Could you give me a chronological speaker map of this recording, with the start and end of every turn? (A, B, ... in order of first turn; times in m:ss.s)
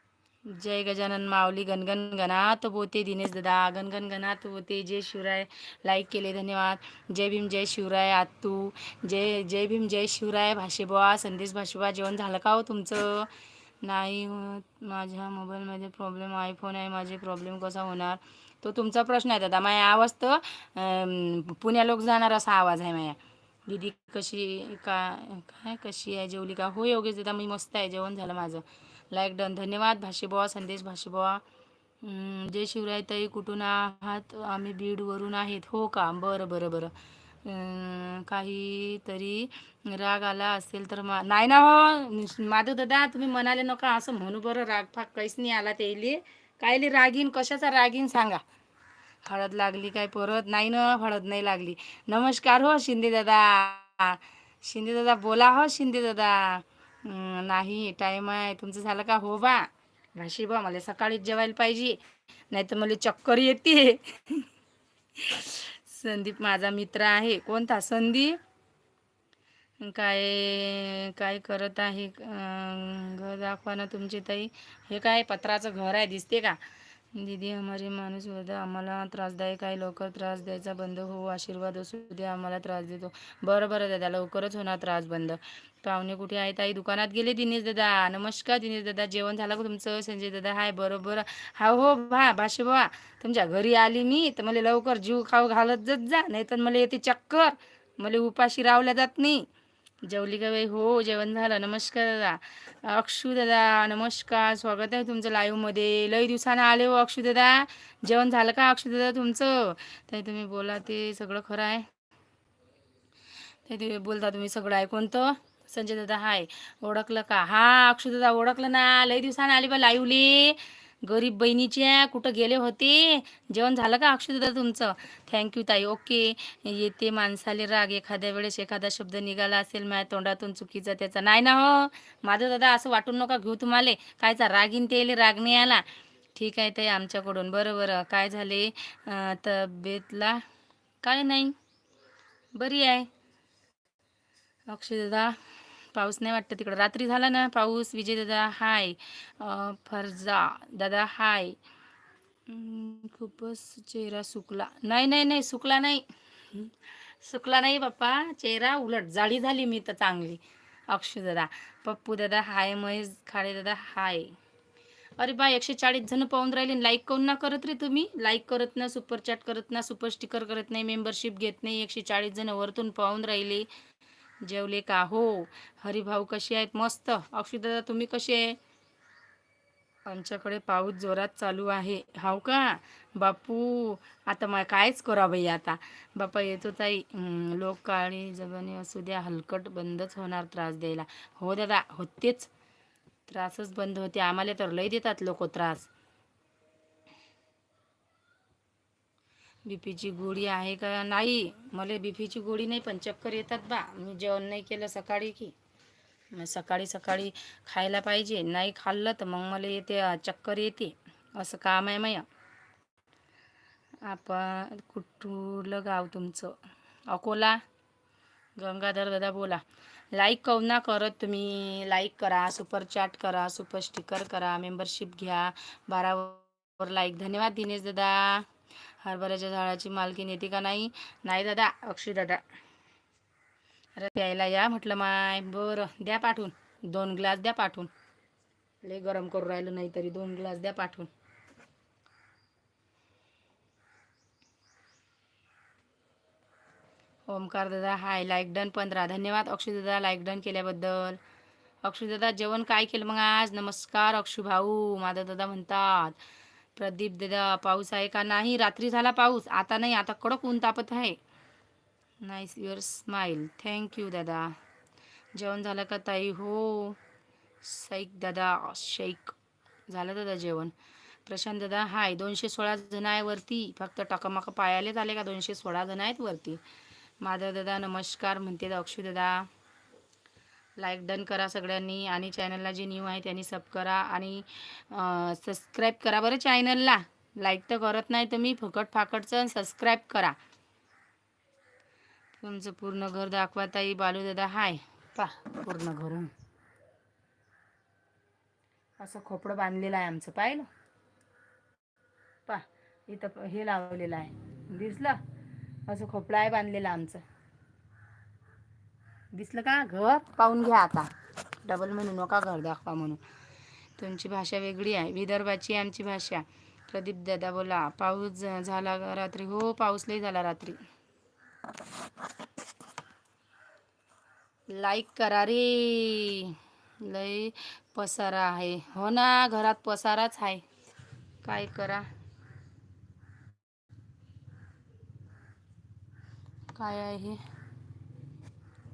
0:00.4-0:13.3 A
0:13.8-0:31.4 A
0:32.0-0:36.9 A
0:37.4-0:48.4 A
0:49.2-1:02.0 A
1:02.5-1:04.4 A
1:05.2-1:08.4 A
1:09.8-1:16.6 A
1:17.1-1:39.5 A
1:40.0-1:51.9 A
1:53.6-2:20.4 A
2:21.0-2:21.5 A
2:22.5-2:23.1 A
2:24.7-2:25.4 A
2:25.9-2:31.6 A
2:32.5-2:44.3 A
2:45.2-2:53.7 A
2:54.4-2:58.6 A
3:00.0-3:12.5 A
3:13.3-3:15.9 A
3:19.6-3:25.5 A
3:26.3-3:32.2 A
3:34.0-3:37.6 A
3:38.6-3:48.5 A
3:49.0-3:52.4 A
3:54.0-3:57.9 A
3:58.8-4:01.1 A
4:07.3-4:11.2 A
4:11.8-4:16.2 A
4:16.8-4:21.2 A
4:22.2-4:24.6 A
4:25.3-4:27.0 A
4:27.6-4:29.3 A
4:29.9-4:30.7 A
4:31.2-4:36.6 A
4:37.2-4:39.5 A
4:40.8-4:50.4 A
4:52.4-4:56.3 A
4:59.0-5:00.7 A
5:02.5-5:05.2 A
5:05.9-5:07.2 A
5:09.3-5:11.1 A
5:11.6-5:13.2 A
5:14.0-5:20.8 A
5:24.7-5:30.6 A
5:31.4-5:32.1 A
5:36.7-5:37.4 A